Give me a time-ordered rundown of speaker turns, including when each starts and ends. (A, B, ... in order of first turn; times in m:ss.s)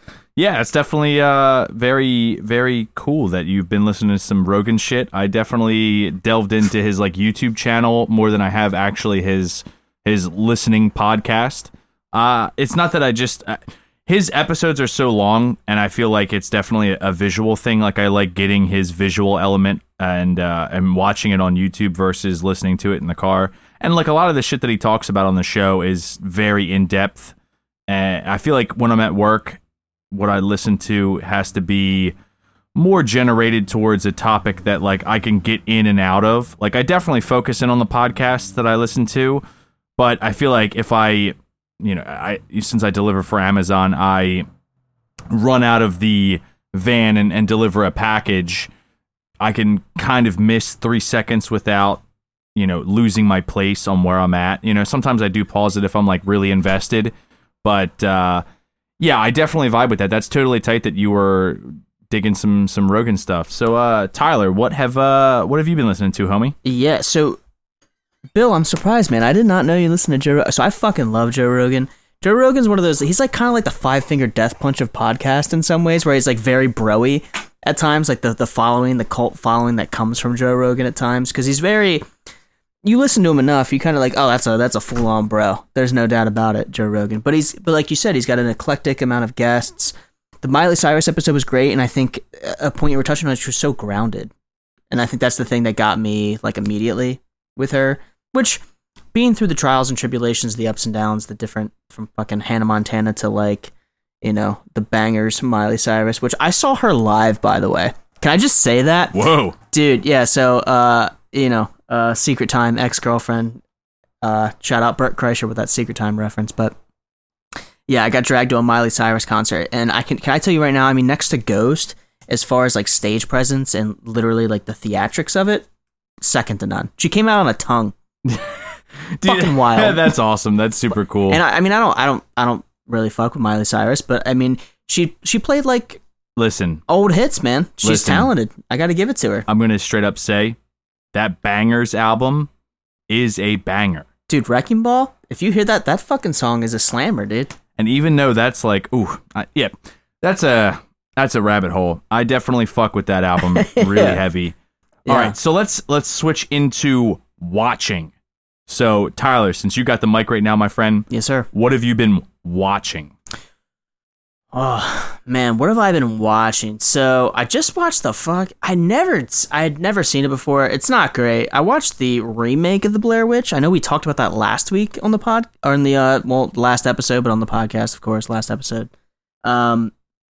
0:00.4-0:27.3 A
0:27.9-0:29.6 A
0:30.1-0:32.1 A
0:32.7-0:39.4 A
0:40.0-0:44.4 A
0:45.3-0:48.7 A
0:49.4-0:52.0 A
0:52.6-0:58.4 A
0:59.0-1:06.6 A
1:06.6-1:07.4 B
1:08.3-1:22.0 B
1:22.8-1:34.3 B
1:34.9-1:38.6 B
1:39.1-1:49.2 B
1:49.1-1:49.6 A
1:49.7-1:53.6 B
1:54.2-1:56.8 B
1:57.9-2:05.6 B
2:06.2-2:07.9 B
2:08.3-2:08.5 A
2:09.1-2:11.4 A
2:09.2-2:10.1 B
2:11.3-2:16.0 B
2:16.4-2:16.8 A
2:16.9-2:19.5 B
2:17.8-2:18.3 A
2:19.5-2:20.6 A
2:21.1-2:22.5 A
2:23.1-2:24.1 A
2:24.3-2:27.6 B
2:27.8-2:34.5 A
2:33.5-2:34.2 B
2:35.0-2:35.3 B
2:35.0-2:38.1 A
2:38.7-2:43.1 A
2:41.1-2:41.5 B
2:44.5-2:58.9 B
2:59.4-2:59.9 B